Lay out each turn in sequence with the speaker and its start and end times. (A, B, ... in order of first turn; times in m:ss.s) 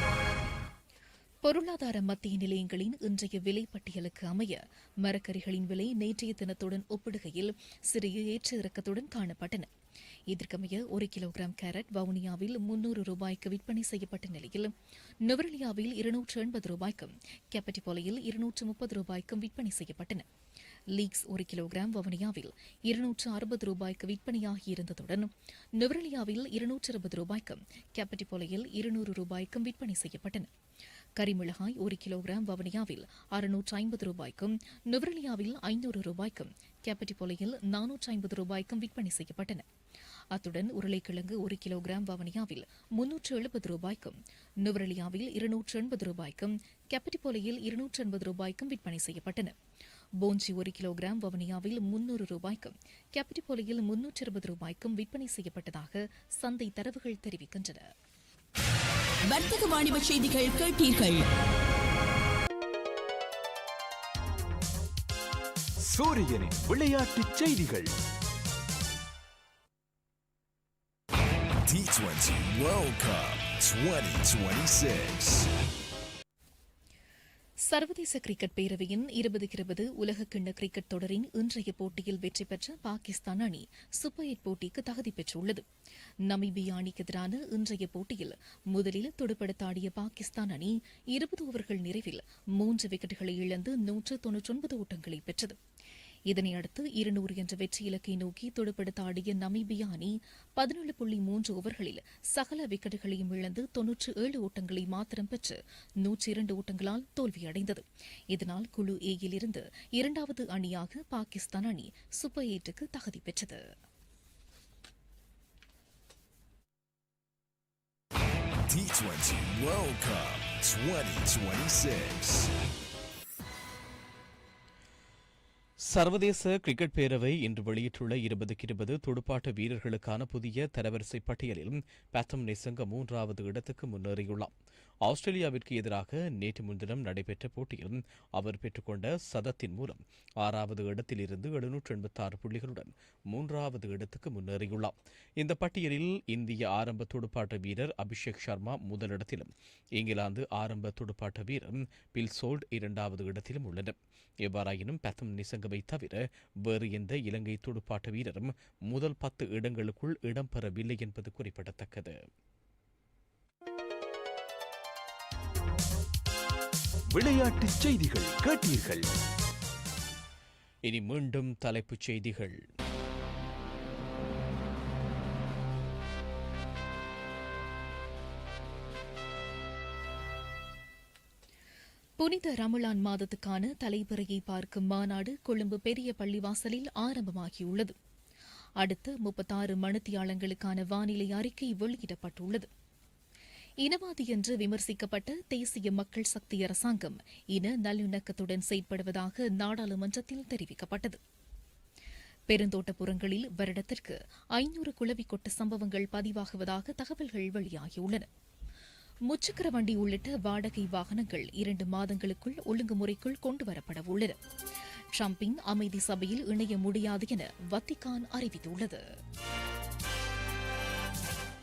0:01.4-0:09.7 A
0:10.3-0:14.7 A
0:15.2-0:20.2 A
0:20.9-0:30.5 A
0:31.2-0:39.6 A
0:40.3-0:49.5 A
0:50.2-0:57.8 A
0:59.3-1:01.3 B
1:05.9-1:07.9 C
1:11.6-1:15.5 D
1:17.7-1:25.6 A
1:26.3-1:35.6 A
1:36.3-1:53.6 A
1:58.7-2:02.5 D
2:05.9-2:14.5 E
2:15.0-2:42.2 E
2:47.1-2:49.1 C
2:50.9-2:52.6 E
3:02.2-3:07.9 A
3:08.8-3:12.7 A
3:13.8-3:21.2 A
3:22.5-3:28.3 A
3:29.3-3:34.4 A
3:35.2-3:39.0 A